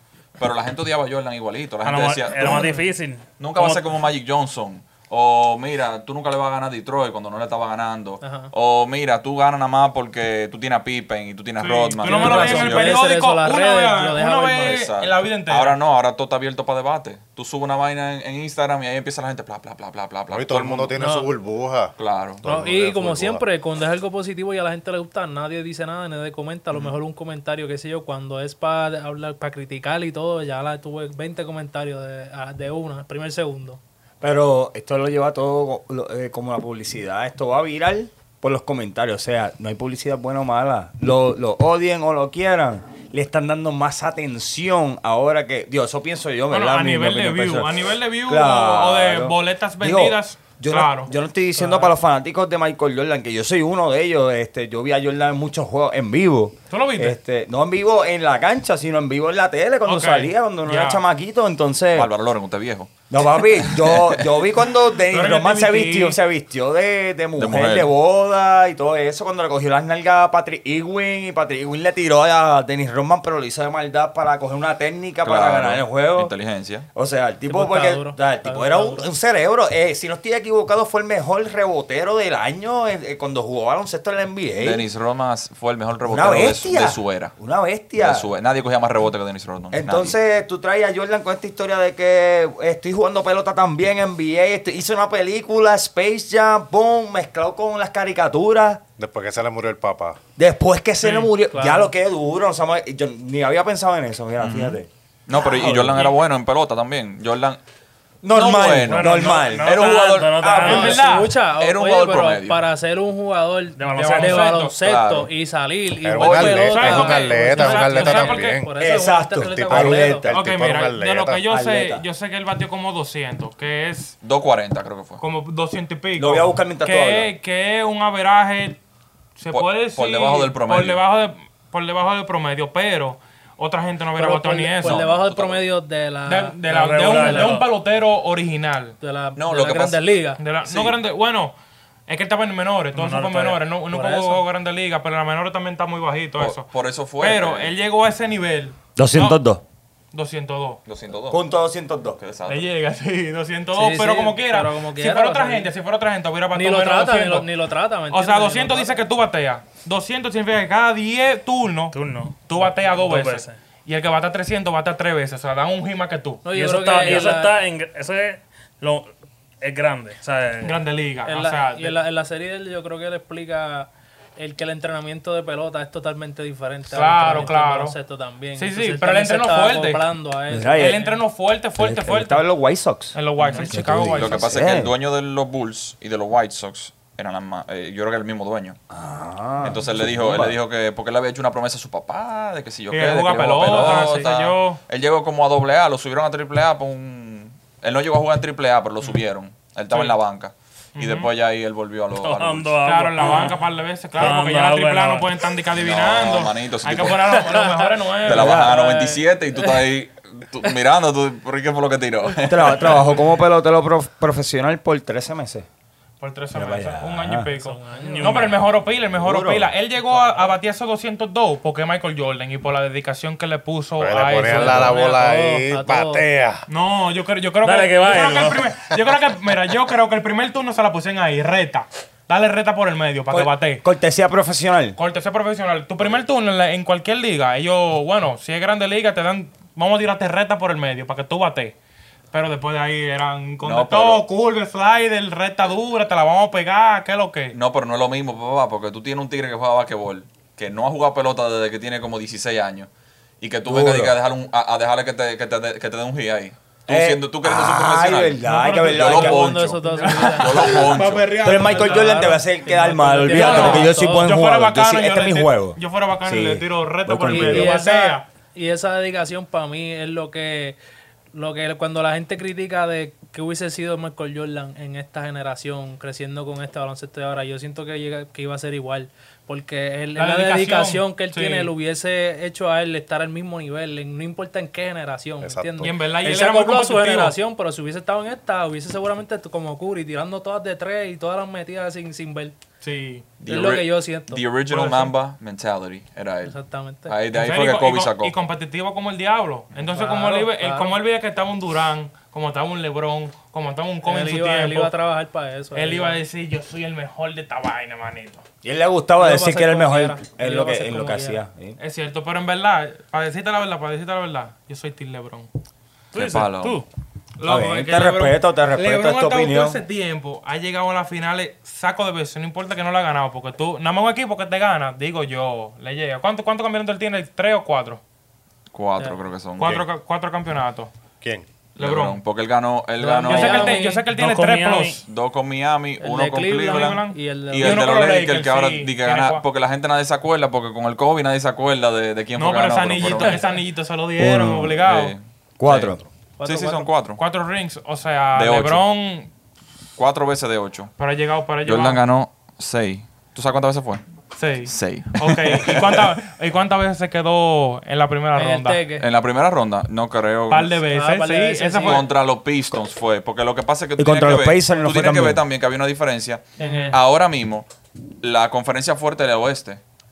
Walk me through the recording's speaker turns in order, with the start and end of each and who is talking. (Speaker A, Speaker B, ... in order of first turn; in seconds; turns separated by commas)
Speaker A: 0.4-2.7, Speaker B: 1.8-3.9, Speaker A: 3.4-13.0, Speaker C: 8.2-8.5, Speaker D: 11.6-15.8, Speaker C: 12.0-14.8, Speaker A: 14.6-20.9, Speaker E: 20.3-23.4, Speaker C: 21.0-21.3, Speaker A: 22.0-22.4, Speaker C: 22.4-33.8, Speaker F: 34.2-62.1, Speaker D: 46.5-51.7, Speaker C: 51.6-51.9, Speaker D: 56.7-57.2, Speaker D: 59.9-61.0, Speaker A: 62.0-63.0, Speaker F: 63.1-76.3, Speaker A: 63.6-64.2, Speaker D: 65.1-66.2, Speaker A: 67.4-67.9, Speaker A: 75.2-76.9, Speaker F: 76.9-84.9, Speaker C: 77.5-79.1, Speaker A: 84.6-87.3, Speaker F: 86.1-88.3, Speaker A: 88.0-90.2, Speaker F: 89.7-98.8, Speaker E: 99.0-100.2, Speaker F: 100.4-106.1, Speaker D: 101.0-101.3, Speaker C: 101.5-101.9, Speaker A: 104.4-107.6, Speaker F: 108.2-111.1, Speaker A: 108.3-110.6, Speaker B: 108.9-111.0, Speaker D: 109.0-111.3, Speaker C: 110.6-120.3, Speaker A: 111.4-112.7, Speaker B: 113.8-114.6, Speaker D: 113.9-114.8, Speaker A: 114.8-115.3, Speaker E: 116.0-118.8, Speaker A: 116.2-116.7, Speaker D: 116.5-118.6, Speaker F: 118.8-120.3, Speaker E: 119.4-121.4, Speaker D: 120.3-124.2, Speaker F: 121.5-122.0, Speaker A: 124.2-125.2, Speaker D: 125.2-128.8, Speaker F: 126.2-127.3, Speaker D: 129.4-135.0, Speaker A: 129.5-131.0, Speaker C: 134.2-137.6, Speaker A: 134.8-135.6, Speaker D: 136.3-139.0, Speaker B: 136.7-137.7, Speaker C: 139.0-140.4, Speaker A: 139.4-140.1, Speaker D: 140.4-141.6, Speaker A: 140.6-141.0, Speaker D: 142.1-149.4, Speaker B: 142.9-143.7, Speaker C: 143.9-144.4, Speaker A: 146.4-147.7, Speaker F: 149.0-149.6, Speaker D: 150.1-150.8, Speaker A: 150.9-151.5, Speaker F: 151.3-152.2, Speaker A: 152.2-152.7, Speaker D: 152.5-157.5, Speaker C: 153.8-155.7, Speaker C: 156.5-159.0, Speaker D: 158.1-166.4, Speaker B: 161.9-163.6, Speaker C: 166.4-167.6, Speaker B: 166.6-170.8, Speaker D: 167.0-167.3, Speaker D: 170.6-172.0, Speaker C: 171.2-181.2, Speaker D: 176.9-177.9, Speaker D: 178.6-180.0, Speaker F: 180.5-181.1, Speaker D: 180.7-182.4, Speaker F: 181.8-184.9, Speaker D: 183.1-184.5, Speaker A: 183.4-188.8, Speaker F: 188.9-190.6, Speaker A: 189.6-202.8, Speaker D: 192.9-194.8, Speaker C: 193.8-194.1, Speaker D: 199.9-200.2, Speaker D: 201.0-201.3, Speaker B: 202.2-203.6, Speaker D: 202.8-209.0, Speaker B: 204.1-205.3, Speaker A: 205.7-207.4, Speaker C: 207.6-207.9, Speaker A: 208.2-213.3, Speaker F: 208.3-208.8, Speaker F: 212.4-215.7, Speaker D: 216.2-225.2, Speaker F: 216.5-217.5, Speaker C: 217.6-218.5, Speaker B: 218.0-218.6, Speaker F: 219.2-219.7, Speaker C: 220.1-220.5, Speaker E: 224.0-226.7, Speaker C: 224.4-226.2, Speaker D: 226.7-233.8, Speaker B: 227.6-228.7, Speaker F: 233.3-235.0, Speaker D: 235.0-241.8, Speaker D: 242.3-247.6, Speaker A: 243.6-244.2, Speaker A: 247.5-252.9, Speaker A: 253.4-261.4, Speaker F: 253.7-254.2, Speaker F: 256.9-259.6, Speaker D: 258.4-259.4, Speaker C: 259.0-260.8, Speaker D: 259.9-268.3, Speaker F: 261.4-267.8, Speaker C: 261.7-264.4, Speaker C: 267.3-270.8, Speaker C: 271.3-292.6, Speaker D: 280.1-281.7, Speaker E: 285.4-285.9, Speaker D: 285.8-287.4, Speaker D: 292.8-293.3, Speaker A: 293.4-298.4, Speaker C: 293.5-294.4, Speaker D: 294.7-295.1, Speaker C: 296.4-297.2, Speaker D: 297.3-304.9, Speaker C: 299.9-300.9, Speaker C: 304.0-306.2, Speaker D: 305.7-308.4, Speaker F: 308.6-311.8, Speaker C: 309.2-311.4, Speaker D: 311.8-315.5, Speaker B: 316.1-316.9, Speaker A: 316.1-316.8, Speaker D: 317.4-328.0, Speaker F: 317.4-319.8, Speaker A: 328.7-329.8, Speaker D: 329.6-330.9, Speaker E: 331.2-331.5, Speaker D: 331.8-332.2, Speaker A: 331.8-333.7, Speaker C: 333.0-334.1, Speaker D: 333.3-335.0, Speaker B: 334.1-335.0, Speaker A: 335.0-343.4, Speaker C: 336.0-337.9, Speaker D: 336.6-339.4, Speaker D: 342.4-345.1, Speaker F: 344.2-344.8, Speaker A: 344.9-347.2, Speaker F: 345.6-346.0, Speaker C: 346.4-346.9, Speaker D: 347.2-349.3, Speaker A: 348.4-348.8, Speaker A: 350.0-350.9, Speaker D: 351.0-352.0, Speaker A: 351.6-354.0, Speaker D: 354.4-358.8, Speaker A: 354.6-356.1, Speaker C: 358.4-359.1, Speaker A: 359.0-360.8, Speaker D: 360.5-362.1, Speaker C: 360.9-362.1, Speaker A: 361.8-367.7, Speaker F: 364.0-365.4, Speaker C: 366.6-367.0, Speaker D: 366.6-367.0, Speaker A: 368.2-369.8